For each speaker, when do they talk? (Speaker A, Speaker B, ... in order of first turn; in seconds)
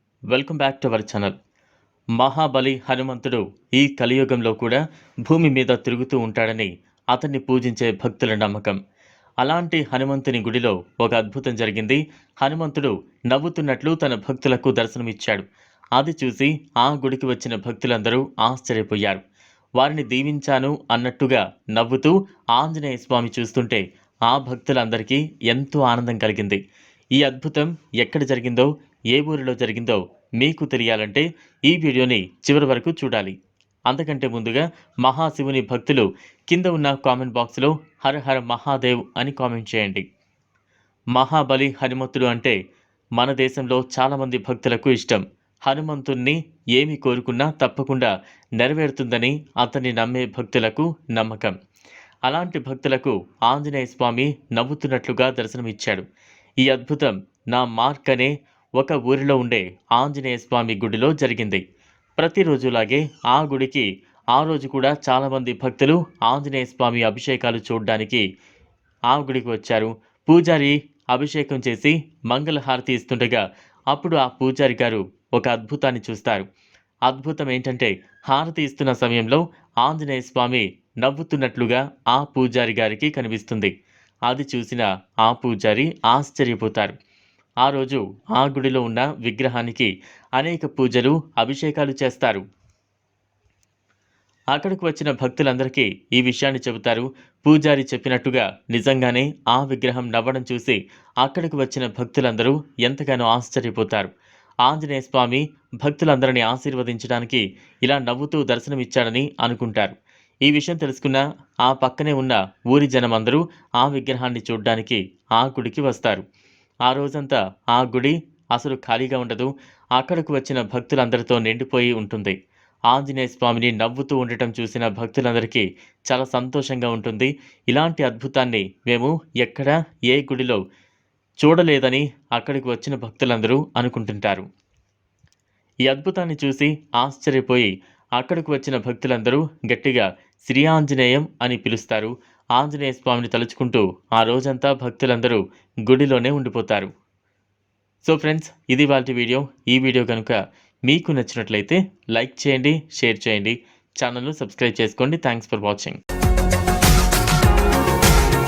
Speaker A: 0.3-1.4, 2.2-8.8, 9.4-15.4, 16.0-19.2, 19.8-26.6, 27.2-33.4, 33.9-40.0, 41.2-42.5, 43.2-51.5, 52.3-56.0, 56.6-61.6, 62.2-68.2, 69.1-76.5, 77.1-83.7, 84.3-87.0, 87.6-92.4, 94.5-104.1, 104.7-109.9, 110.5-116.2, 116.9-122.4, 122.9-130.6, 131.4-134.4, 135.9-146.9, 148.0-156.0